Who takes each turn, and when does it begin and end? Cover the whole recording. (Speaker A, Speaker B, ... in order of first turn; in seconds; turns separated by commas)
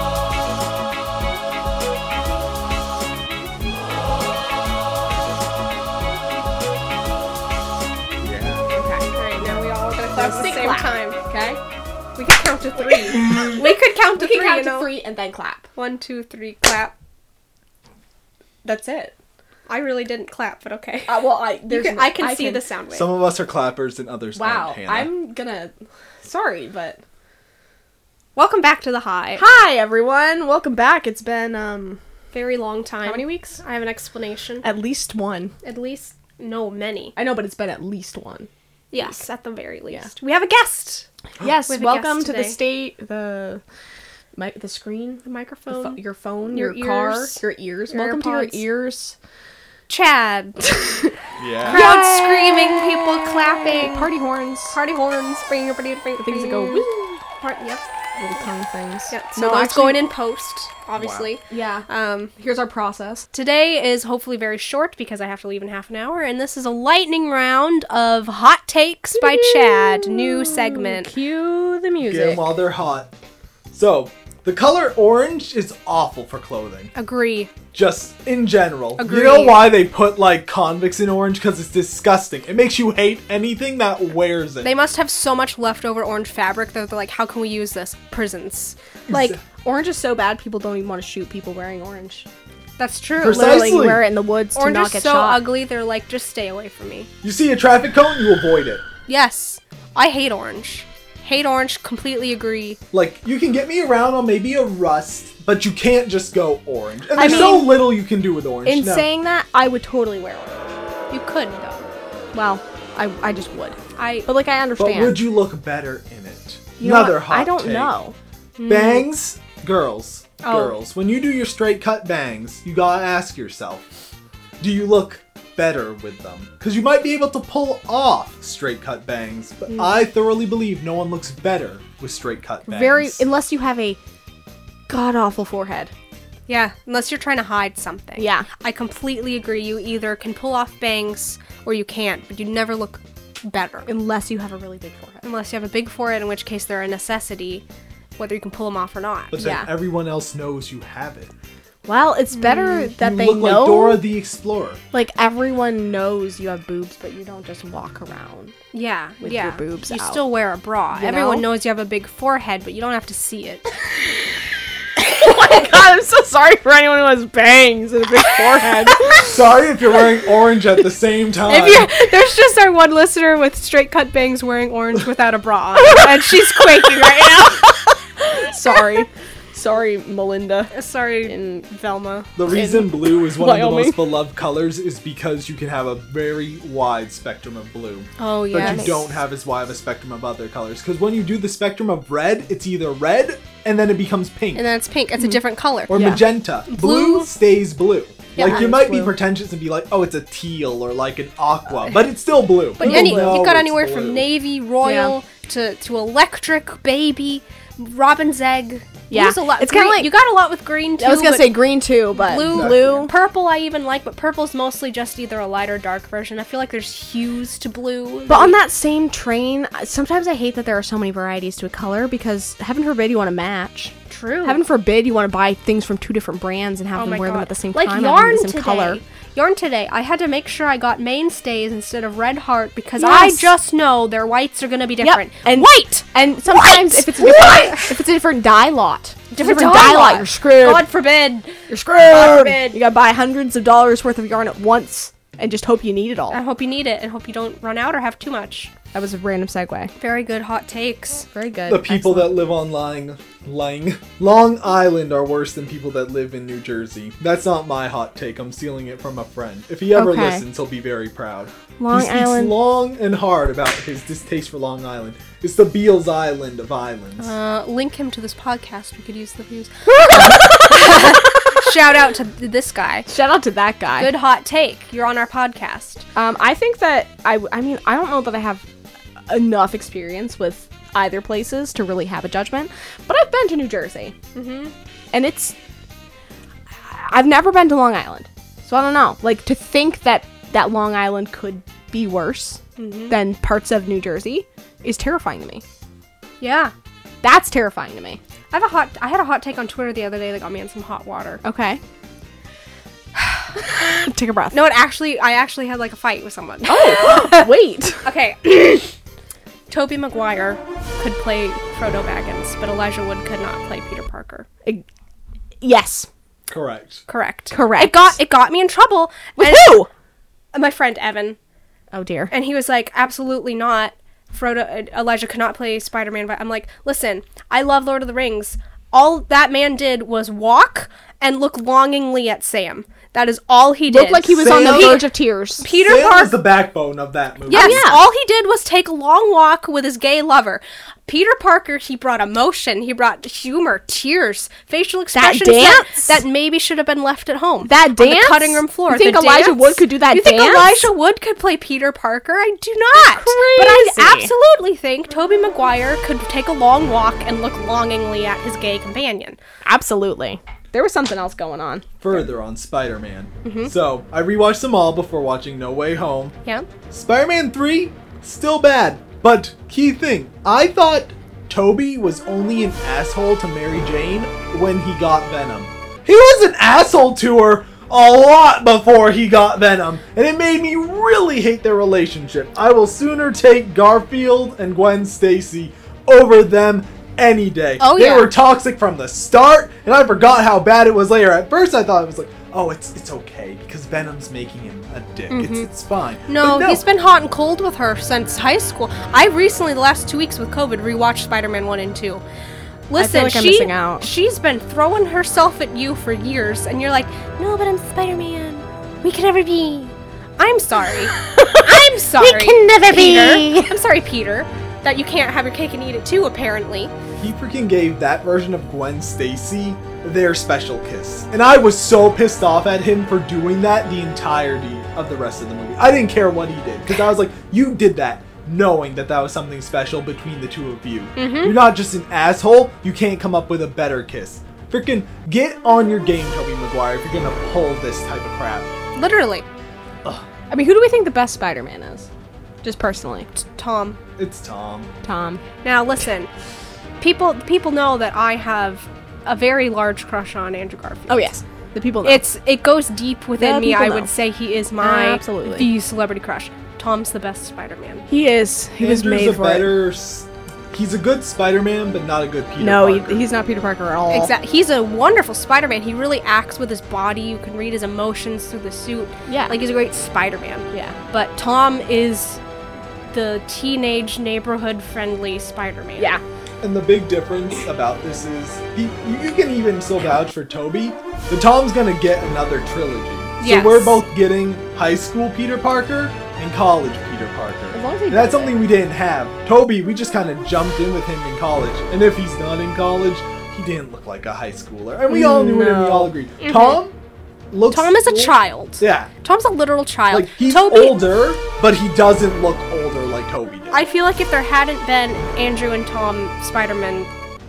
Speaker A: 8.2-8.7, Speaker B: 8.7-9.1, Speaker C: 9.2-11.2, Speaker B: 10.1-11.6, Speaker C: 12.1-14.9, Speaker B: 13.0-13.5, Speaker B: 14.1-15.7, Speaker C: 15.7-16.9, Speaker B: 18.6-19.1, Speaker C: 19.7-23.1, Speaker B: 21.1-22.6, Speaker A: 22.9-25.1, Speaker B: 24.3-25.7, Speaker B: 26.2-27.0, Speaker C: 28.4-29.4, Speaker B: 29.4-32.0, Speaker C: 32.3-34.6, Speaker B: 33.0-33.6, Speaker B: 34.6-35.5, Speaker C: 35.6-37.1, Speaker B: 37.1-39.2, Speaker C: 38.9-41.0, Speaker B: 41.4-43.6, Speaker C: 41.7-42.6, Speaker B: 44.3-49.1, Speaker C: 45.2-48.6, Speaker C: 49.9-51.0, Speaker A: 51.4-51.9, Speaker B: 51.7-54.8, Speaker C: 51.7-54.1, Speaker C: 54.7-57.8, Speaker B: 56.2-57.4, Speaker B: 58.1-60.0, Speaker C: 59.1-62.3, Speaker A: 61.0-61.3, Speaker B: 61.5-61.8, Speaker B: 62.4-63.3, Speaker C: 63.3-71.1, Speaker B: 69.2-72.5, Speaker A: 72.0-73.1, Speaker A: 73.7-76.9, Speaker C: 76.9-77.5, Speaker A: 77.7-84.7, Speaker C: 79.0-79.7, Speaker C: 84.6-88.8, Speaker A: 89.1-89.4, Speaker B: 89.1-92.3, Speaker C: 92.8-93.7, Speaker A: 93.2-94.0, Speaker B: 93.2-95.4, Speaker C: 94.5-97.1, Speaker A: 97.2-98.8, Speaker C: 99.1-102.8, Speaker A: 102.9-109.1, Speaker B: 107.2-107.8, Speaker C: 107.2-107.6, Speaker B: 108.6-110.7, Speaker C: 111.1-111.8, Speaker B: 112.3-115.2, Speaker C: 114.0-114.3, Speaker A: 114.8-117.9, Speaker B: 116.8-118.1, Speaker C: 118.6-119.1, Speaker A: 118.7-123.8, Speaker C: 120.4-120.7, Speaker A: 124.6-133.2, Speaker B: 132.7-134.0, Speaker B: 134.9-135.9, Speaker C: 136.5-143.9, Speaker B: 138.2-138.5, Speaker B: 143.9-145.2, Speaker C: 145.2-147.6, Speaker C: 148.2-149.3, Speaker A: 149.3-151.3, Speaker B: 149.3-149.7, Speaker B: 151.8-154.0, Speaker C: 152.4-152.8, Speaker A: 152.9-154.8, Speaker B: 154.9-158.6, Speaker C: 158.7-163.7, Speaker B: 159.2-160.2, Speaker B: 160.9-161.5, Speaker B: 164.9-169.3, Speaker A: 168.6-171.9, Speaker C: 171.5-177.7, Speaker B: 175.7-181.7, Speaker C: 180.7-182.3, Speaker A: 182.4-194.7, Speaker B: 182.5-184.0, Speaker C: 188.2-189.0, Speaker B: 188.5-189.0, Speaker C: 194.5-196.0, Speaker A: 195.9-204.3, Speaker B: 195.9-196.2, Speaker C: 196.7-197.3, Speaker C: 198.4-198.6, Speaker B: 198.4-199.1, Speaker B: 202.8-203.4, Speaker C: 202.8-211.6, Speaker B: 204.8-205.2, Speaker B: 209.1-210.1, Speaker B: 211.0-213.1, Speaker C: 212.1-218.6, Speaker A: 212.3-213.1, Speaker B: 218.3-229.0, Speaker C: 224.1-224.6, Speaker C: 226.9-235.9, Speaker B: 233.0-233.5, Speaker B: 235.0-240.9, Speaker C: 237.0-237.9, Speaker A: 237.3-237.7, Speaker C: 239.3-242.8, Speaker B: 241.7-246.4, Speaker C: 246.3-248.7, Speaker B: 248.9-249.9, Speaker C: 250.0-251.3, Speaker B: 251.3-252.3, Speaker A: 251.7-267.3, Speaker B: 259.9-260.4, Speaker B: 261.8-262.5, Speaker C: 267.2-273.1, Speaker B: 269.9-271.5, Speaker B: 273.1-274.1, Speaker C: 274.0-276.0, Speaker B: 276.1-278.6, Speaker B: 279.3-284.1, Speaker C: 284.3-284.7, Speaker B: 285.1-285.5, Speaker B: 286.8-295.6, Speaker C: 292.8-293.1, Speaker C: 296.4-296.7, Speaker B: 297.2-298.2, Speaker C: 298.5-301.4, Speaker B: 301.4-301.8, Speaker B: 303.1-304.6, Speaker C: 304.5-307.5, Speaker B: 306.7-308.0, Speaker C: 308.0-308.9, Speaker C: 309.7-314.5, Speaker B: 315.6-316.1, Speaker A: 316.5-317.0, Speaker C: 317.1-319.8, Speaker B: 317.5-318.2, Speaker B: 319.4-319.9, Speaker C: 320.5-321.4, Speaker B: 321.9-322.3, Speaker C: 322.3-336.3, Speaker B: 333.9-335.6, Speaker A: 334.4-335.1, Speaker A: 335.7-337.8, Speaker C: 337.5-359.4, Speaker B: 337.5-338.0, Speaker B: 345.1-346.2, Speaker B: 347.6-350.9, Speaker B: 352.9-354.3, Speaker B: 359.6-361.9, Speaker A: 362.0-366.4, Speaker C: 363.4-363.7, Speaker A: 366.9-396.8, Speaker C: 387.8-388.3, Speaker C: 395.3-395.7, Speaker C: 396.3-402.2, Speaker C: 402.9-416.9, Speaker B: 402.9-404.1, Speaker B: 411.1-413.7, Speaker A: 417.2-438.7, Speaker C: 431.1-431.6, Speaker C: 438.9-439.4, Speaker B: 440.5-442.1, Speaker B: 442.6-443.3, Speaker C: 443.4-444.0, Speaker A: 444.2-444.9, Speaker B: 445.0-445.4, Speaker C: 445.6-446.3, Speaker C: 447.0-451.3, Speaker B: 451.1-452.2, Speaker C: 452.0-458.0, Speaker B: 453.4-454.1, Speaker B: 454.8-455.7, Speaker B: 458.1-459.7, Speaker A: 458.8-463.3, Speaker B: 462.6-464.3, Speaker C: 464.1-472.4, Speaker B: 469.3-469.6, Speaker B: 470.7-471.0, Speaker C: 473.1-476.2, Speaker A: 476.6-496.9, Speaker C: 483.4-484.0, Speaker B: 487.7-488.6, Speaker B: 495.1-496.1, Speaker C: 496.4-496.8, Speaker A: 497.5-499.1, Speaker C: 497.7-501.0, Speaker A: 500.1-503.8, Speaker C: 503.7-507.1